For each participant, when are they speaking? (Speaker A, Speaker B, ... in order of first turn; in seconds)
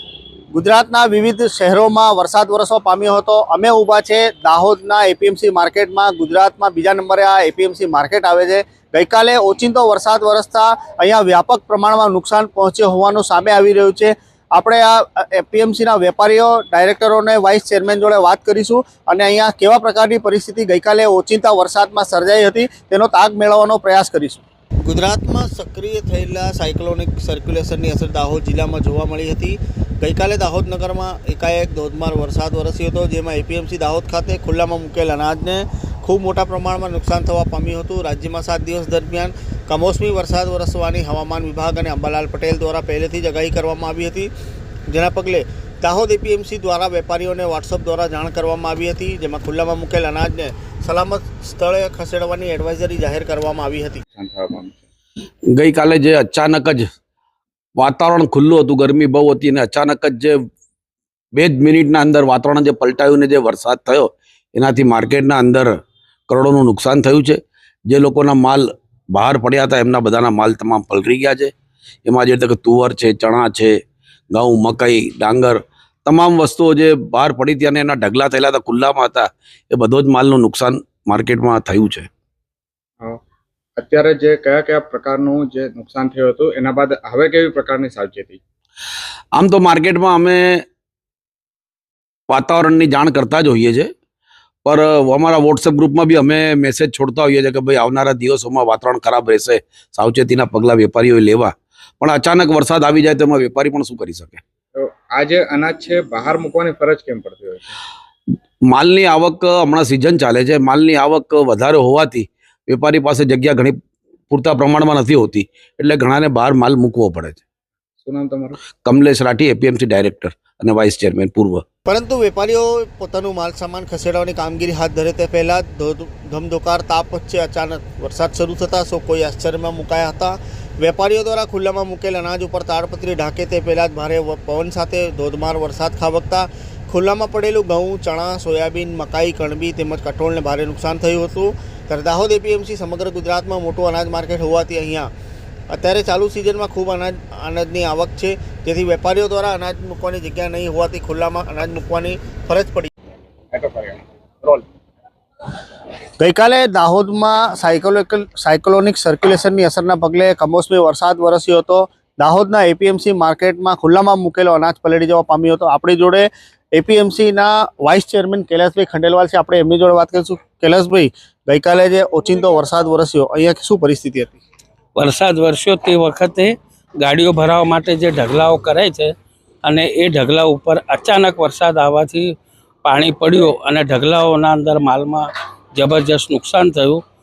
Speaker A: 0.5-44.3, 44.9-54.0, 121.8-145.1, 145.7-152.9, 156.2-174.4
Speaker B: 54.1-54.8, 83.8-88.4, 104.8-107.7, 118.0-118.6, 153.5-154.6
Speaker C: 55.5-56.9, 57.8-60.5, 61.3-65.7, 66.3-71.5, 72.0-73.8, 74.3-82.1, 89.3-90.6, 92.3-93.9, 94.6-104.4, 108.7-113.8, 114.3-117.4, 118.8-121.6
Speaker D: 174.9-179.1, 179.6-182.3, 182.8-187.0